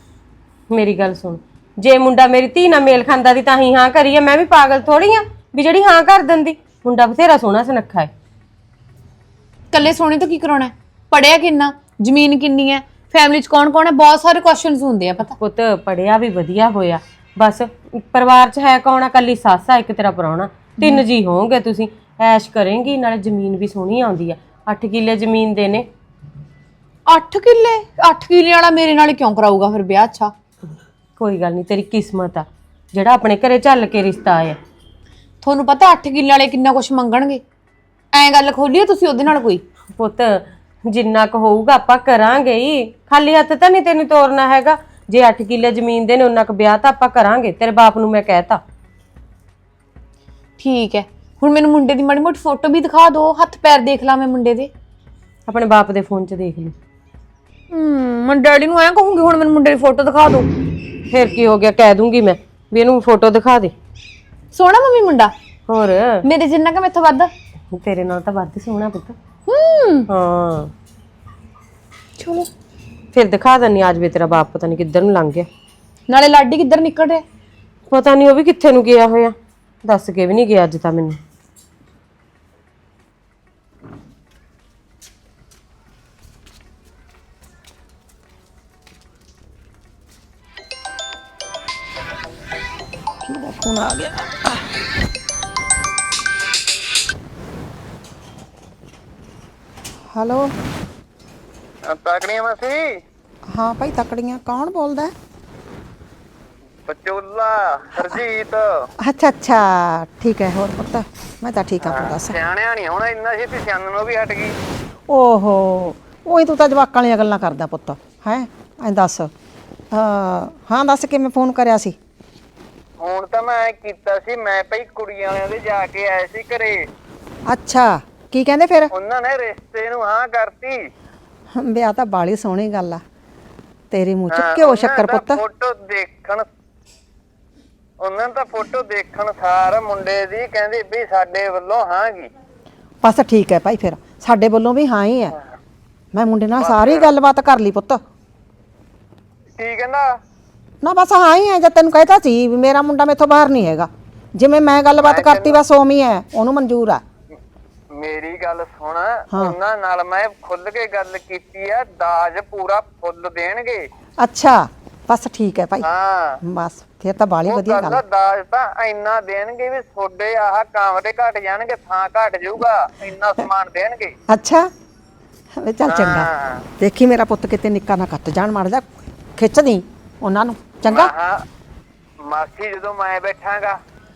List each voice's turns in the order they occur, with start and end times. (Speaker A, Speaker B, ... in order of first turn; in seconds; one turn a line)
Speaker A: 0.7-8.1
Speaker B: 9.7-15.3
Speaker A: 15.4-25.9
Speaker B: 27.1-30.3
Speaker A: 31.2-34.6
Speaker B: 35.4-37.4
Speaker B: 38.1-39.6
Speaker A: 40.0-48.6
Speaker B: 50.6-54.7
Speaker A: 55.5-56.7
Speaker B: 57.7-60.5
Speaker A: 61.1-63.7
Speaker B: 64.5-65.3
Speaker A: 65.7-66.2
Speaker B: 66.2-67.3
Speaker A: 67.7-69.2
Speaker B: 69.5-70.1
Speaker A: 70.1-70.7
Speaker B: 72.2-72.5
Speaker A: 73.1-75.5
Speaker B: 76.1-77.2
Speaker A: 77.9-81.2
Speaker C: 93.2-94.7
Speaker C: 100.1-100.5
Speaker D: 101.9-102.9
Speaker C: 103.5-105.1
Speaker D: 106.8-108.7
Speaker C: 109.0-112.3
Speaker D: 111.9-114.5
Speaker C: 115.1-119.3
Speaker C: 119.9-122.0
Speaker D: 123.0-126.8
Speaker C: 127.5-128.9
Speaker D: 128.9-130.8
Speaker C: 131.5-133.0
Speaker C: 133.9-135.4
Speaker D: 134.3-136.4
Speaker D: 138.0-142.3
Speaker C: 143.0-145.3
Speaker C: 146.1-148.0
Speaker D: 146.6-147.1
Speaker D: 149.6-150.1
Speaker C: 150.8-157.0
Speaker D: 155.0-155.6
Speaker D: 158.0-163.8
Speaker C: 164.2-165.8
Speaker D: 165.8-166.4
Speaker C: 166.4-168.0
Speaker D: 167.5-174.1
Speaker C: 174.3-174.7
Speaker C: 175.6-176.3
Speaker D: 175.9-176.6
Speaker C: 176.8-181.1
Speaker D: 180.8-181.4
Speaker D: 182.2-183.8